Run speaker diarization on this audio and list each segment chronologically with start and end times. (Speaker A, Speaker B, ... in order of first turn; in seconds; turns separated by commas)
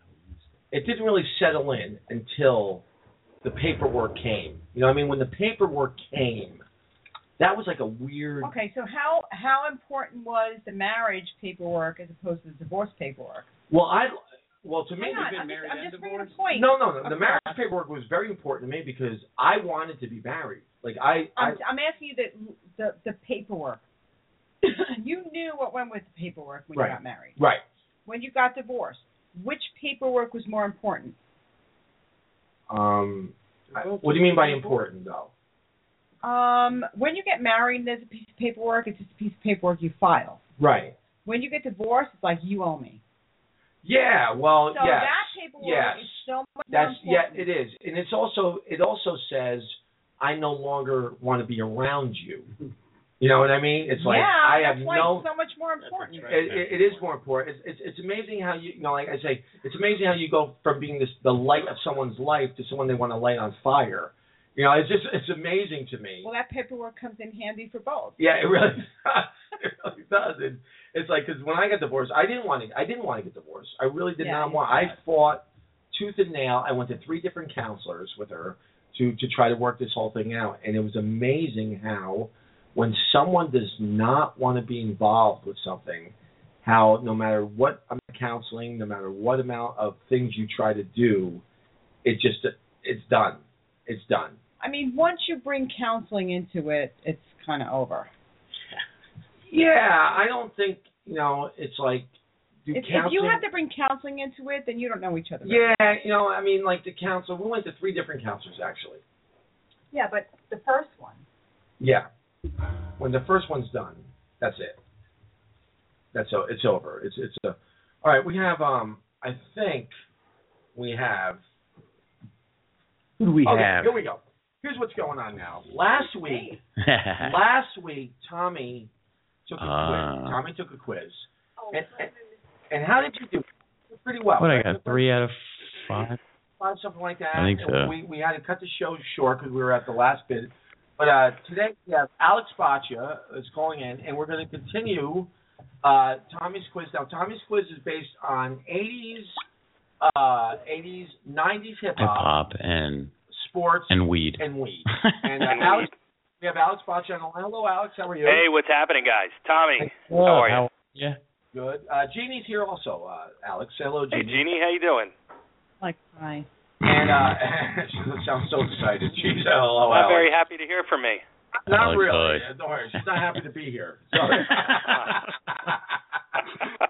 Speaker A: 0.7-2.9, Speaker A: 3.4-6.6, Speaker A: 7.4-8.5, Speaker B: 8.4-13.5, Speaker A: 13.7-15.9, Speaker B: 15.0-17.4, Speaker C: 15.2-16.4, Speaker A: 16.5-21.6, Speaker B: 21.4-23.8, Speaker B: 24.6-27.4, Speaker A: 26.7-27.6, Speaker B: 28.1-31.2, Speaker A: 32.7-35.3, Speaker B: 36.2-40.4, Speaker A: 40.6-41.0, Speaker B: 41.2-43.0, Speaker A: 43.8-52.5, Speaker B: 44.7-47.5, Speaker A: 53.2-55.3, Speaker B: 54.0-56.5, Speaker A: 56.2-66.3, Speaker C: 56.3-56.8, Speaker B: 66.2-68.2, Speaker A: 68.2-91.4, Speaker B: 74.2-75.0, Speaker A: 92.0-94.4, Speaker B: 94.6-98.1, Speaker A: 99.5-102.1, Speaker A: 102.7-103.4, Speaker B: 102.7-106.0, Speaker A: 105.4-109.0, Speaker B: 109.9-111.2, Speaker A: 111.8-112.1, Speaker A: 113.0-114.8, Speaker A: 116.1-119.9, Speaker A: 120.7-121.4, Speaker C: 123.2-124.0, Speaker A: 123.4-126.6, Speaker B: 125.9-126.6, Speaker C: 126.8-127.4, Speaker A: 127.2-128.9, Speaker A: 129.5-132.1, Speaker C: 129.6-130.4, Speaker B: 131.6-132.5, Speaker A: 132.7-135.0, Speaker C: 134.4-136.2, Speaker A: 136.6-145.3, Speaker C: 137.3-137.9, Speaker A: 145.8-149.4, Speaker A: 150.0-152.3, Speaker C: 152.0-153.1, Speaker A: 153.3-158.5, Speaker C: 153.9-155.6, Speaker D: 155.5-155.9, Speaker D: 158.2-160.7, Speaker C: 159.8-161.2, Speaker A: 161.5-164.5, Speaker D: 164.1-165.1, Speaker B: 165.8-166.5, Speaker A: 166.8-170.3, Speaker D: 169.9-171.2, Speaker A: 171.6-176.4, Speaker C: 171.7-172.5, Speaker C: 174.4-175.0, Speaker D: 174.9-175.2